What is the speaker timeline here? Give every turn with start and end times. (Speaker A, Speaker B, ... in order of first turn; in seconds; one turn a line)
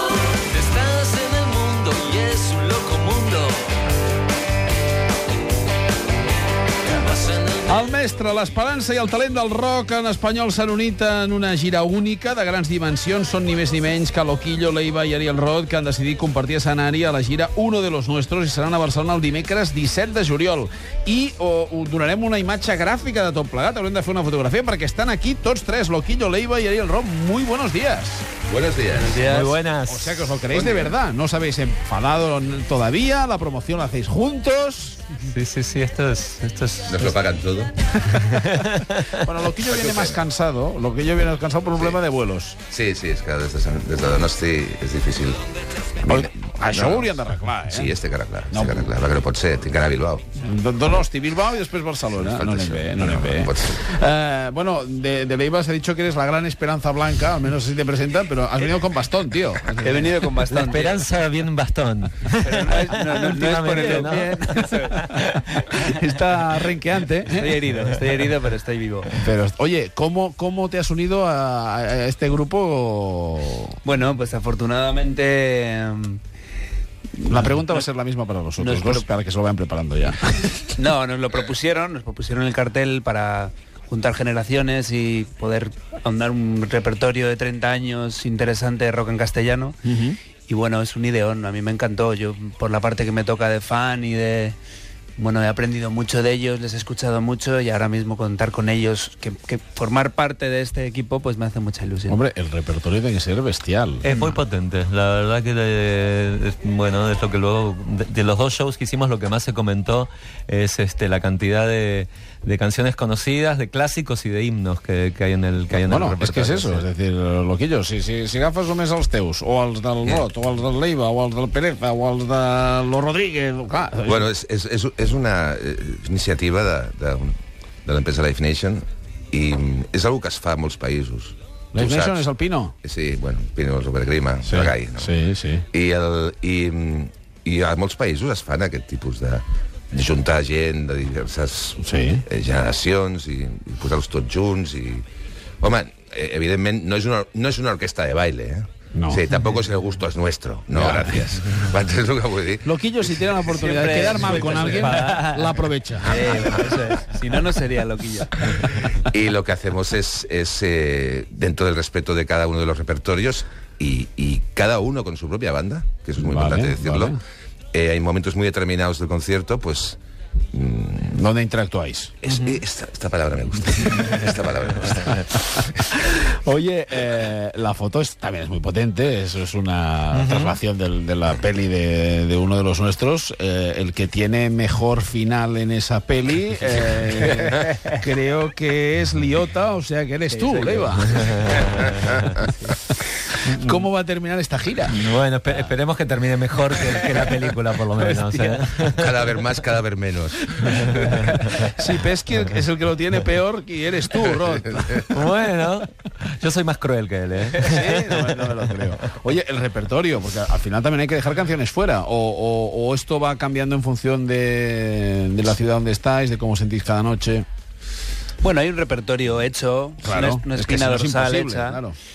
Speaker A: 0.3-3.6
Speaker A: 6.8-7.8
Speaker B: 7.7-28.2
Speaker C: 28.5-29.2
Speaker D: 28.9-29.5
Speaker B: 29.2-35.0
Speaker A: 29.3-30.4
Speaker C: 30.5-30.9
Speaker A: 35.2-37.2
Speaker C: 36.9-37.7
Speaker A: 38.0-39.2
Speaker B: 39.2-42.6
Speaker C: 39.6-40.2
Speaker C: 42.7-45.4
Speaker C: 46.0-47.2
Speaker B: 46.0-47.9
Speaker C: 47.7-50.2
Speaker B: 48.5-49.0
Speaker B: 50.4-60.1
Speaker C: 52.1-53.8
Speaker D: 59.8-61.0
Speaker A: 60.5-65.8
Speaker D: 62.4-65.0
Speaker B: 65.7-67.6
Speaker D: 67.3-69.1
Speaker B: 69.2-73.8
Speaker D: 73.8-76.2
Speaker B: 77.2-80.8
Speaker D: 78.6-79.0
Speaker D: 80.8-89.8
Speaker B: 89.8-90.2
Speaker D: 90.5-94.5
Speaker D: 95.2-102.2
Speaker B: 102.1-104.0
Speaker A: 104.0-116.8
Speaker B: 115.7-124.3
Speaker C: 124.0-132.3
Speaker B: 131.7-132.7
Speaker C: 132.8-135.1
Speaker B: 134.4-135.7
Speaker C: 135.7-145.0
Speaker B: 141.8-142.2
Speaker C: 145.6-154.6
Speaker B: 148.9-149.2
Speaker B: 150.7-151.4
Speaker B: 152.6-156.2
Speaker D: 153.4-155.3
Speaker A: 154.6-155.7
Speaker D: 156.0-158.4
Speaker C: 158.5-167.2
Speaker B: 166.2-167.2
Speaker C: 167.7-170.0
Speaker C: 170.5-171.2
Speaker B: 171.1-172.1
Speaker C: 172.2-175.9
Speaker A: 172.3-172.6
Speaker B: 175.1-191.1
Speaker A: 180.1-180.6
Speaker D: 190.3-191.5
Speaker A: 191.1-192.3
Speaker A: 193.4-193.8
Speaker B: 193.6-195.0
Speaker A: 194.9-199.4
Speaker B: 198.1-198.5
Speaker C: 198.9-201.2
Speaker A: 200.7-201.7
Speaker B: 200.8-205.3
Speaker A: 205.0-208.8
Speaker B: 207.5-217.4
Speaker D: 218.4-221.8
Speaker B: 220.0-221.9